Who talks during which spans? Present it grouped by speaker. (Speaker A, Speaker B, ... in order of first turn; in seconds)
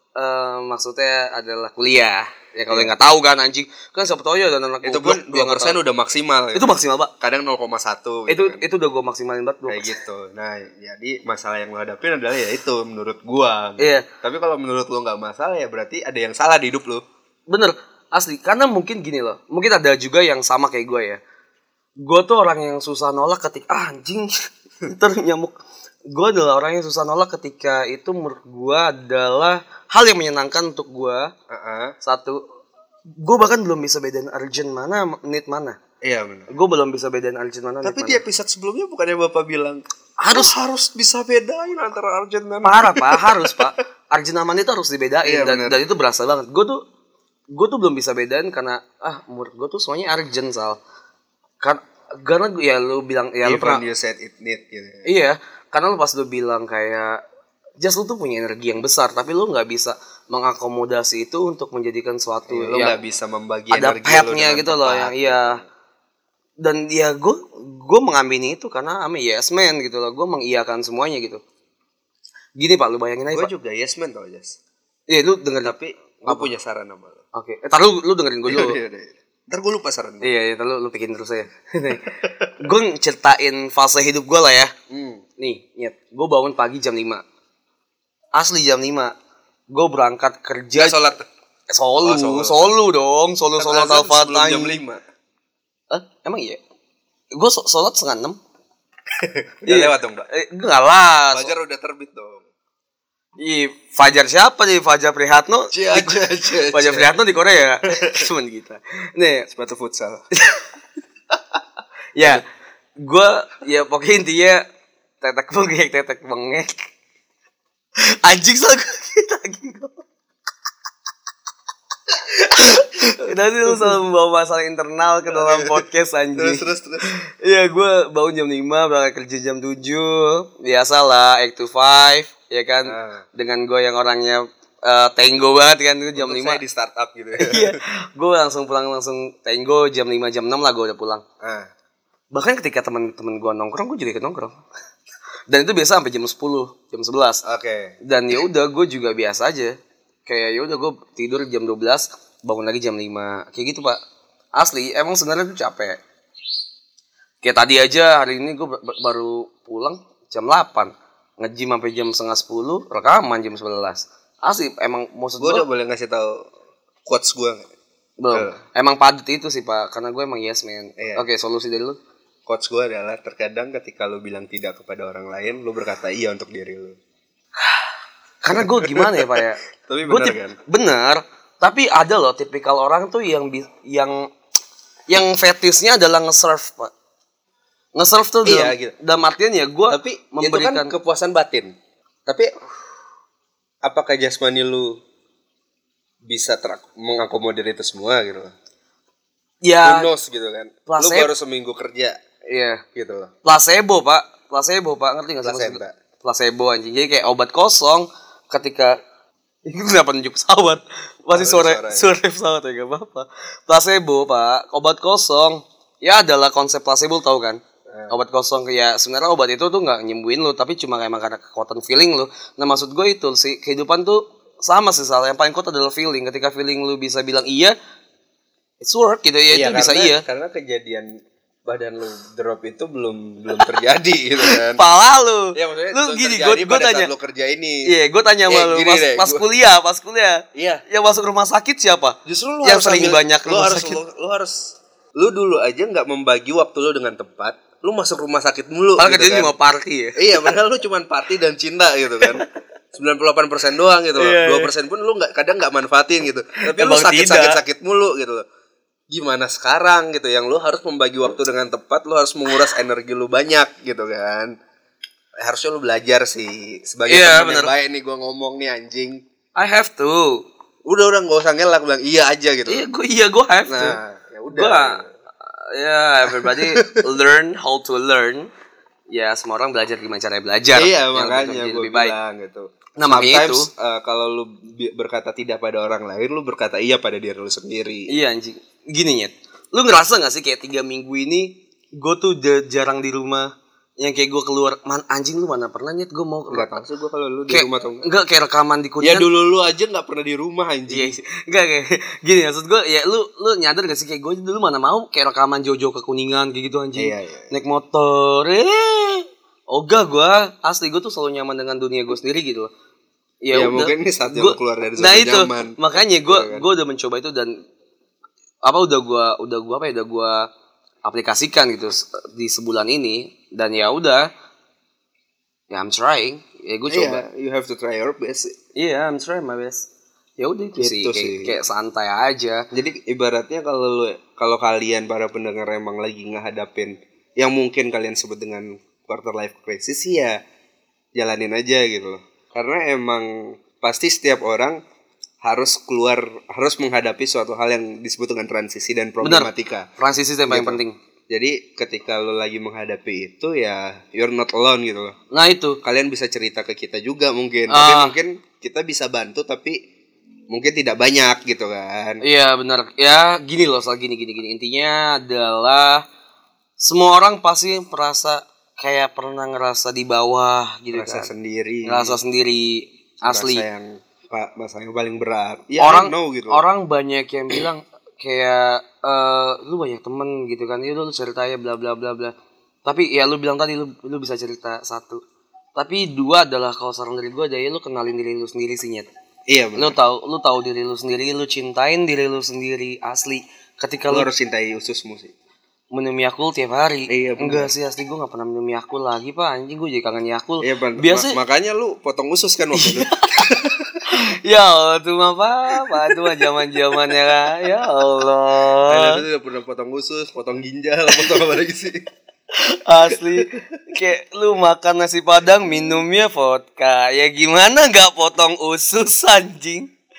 Speaker A: 0.2-5.8, 6.5-7.1, 8.3-9.9, 13.8-14.1, 17.5-21.2, 22.0-24.3, 24.8-25.6, 26.1-31.3, 32.0-32.4, 33.2-35.8, 36.5-38.2, 40.2-40.5, 42.6-46.8, 47.5-50.8, 51.6-53.8, 55.0-57.2, 57.8-63.0, 63.7-65.6, 66.6-71.4, 72.6-73.5, 75.1-76.5, 77.3-78.8, 80.2-84.7, 85.4-87.2, 88.3-89.1, 89.7-91.0, 91.7-94.8, 95.9-96.6, 97.3-98.4, 99.7-101.5, 103.4-109.5, 110.3-110.6, 112.2-112.4, 113.0-114.6, 115.2-116.9, 118.0-120.0, 122.3-136.6, 137.4-141.2, 142.3-144.6, 145.5-147.4, 148.0-154.0, 154.6-156.0, 157.4-165.7, 168.2-172.0, 178.4-184.3, 185.1-186.9, 187.9-190.9, 199.6-200.1, 200.9-201.3, 202.5-202.8, 203.4-209.0, 209.7-227.8, 228.8-230.2, 234.4-237.1, 237.8-244.0, 249.0-250.5, 254.2-254.7, 256.6-257.6, 267.1-267.7, 269.6-270.4, 272.7-274.0, 274.5-278.5, 279.1-282.1, 283.0-283.7, 288.1-296.8, 297.5-299.3, 300.9-312.7, 313.4-317.6, 318.6-320.5, 321.1-324.3, 325.7-327.2, 328.8-329.9, 330.4-332.6, 349.2-351.0, 355.3-355.8, 357.7-358.1, 362.2-366.1, 366.8-371.3, 371.9-373.6, 375.8-382.3, 382.9-385.2, 385.8-389.1, 389.8-394.3, 395.9-401.4, 402.8-403.5, 404.1-409.2, 412.5-419.9
Speaker B: 4.8-8.6, 9.7-17.0, 31.5-32.0, 36.0-36.5, 37.8-43.7, 45.2-45.8, 53.4-55.1, 62.5-65.7, 73.3-74.6, 75.6-77.2, 78.5-80.3, 82.2-82.5, 84.9-85.2, 90.8-91.2, 92.0-92.7, 93.6-95.0, 99.2-100.3, 101.3-102.5, 105.7-107.1, 107.9-108.2, 109.5-110.2, 123.7-124.0, 125.3-125.8, 126.3-127.1, 132.9-133.2, 136.2-137.8, 141.4-141.7, 147.4-148.0, 165.4-166.4, 167.1-167.7, 168.3-168.6, 171.0-171.2, 172.5-177.0, 178.5-180.6, 188.4-188.9, 189.9-191.7, 192.3-192.5, 193.8-195.0, 196.2-198.5, 199.8-202.2, 202.9-203.3, 205.4-205.9, 211.3-212.1, 217.9-218.2, 229.5-231.1, 231.7-234.8, 235.6-237.9, 238.5-239.5, 240.6-240.8, 242.3-249.5, 250.2-258.4, 259.1-264.6, 265.4-269.2, 270.9-272.9, 273.7-275.1, 276.3-277.1, 280.8-288.2, 296.5-298.1, 299.0-301.1, 307.0-307.5, 313.5-316.7, 326.9-328.6, 330.8-331.6, 332.7-340.4, 341.1-344.8, 345.4-349.9, 350.5-355.2, 355.8-359.8, 360.5-362.2, 370.9-372.2, 373.2-376.6, 389.5-390.0, 394.1-395.3, 397.1-397.7, 400.6-404.1, 405.7-406.5, 408.9-412.0, 413.1-413.6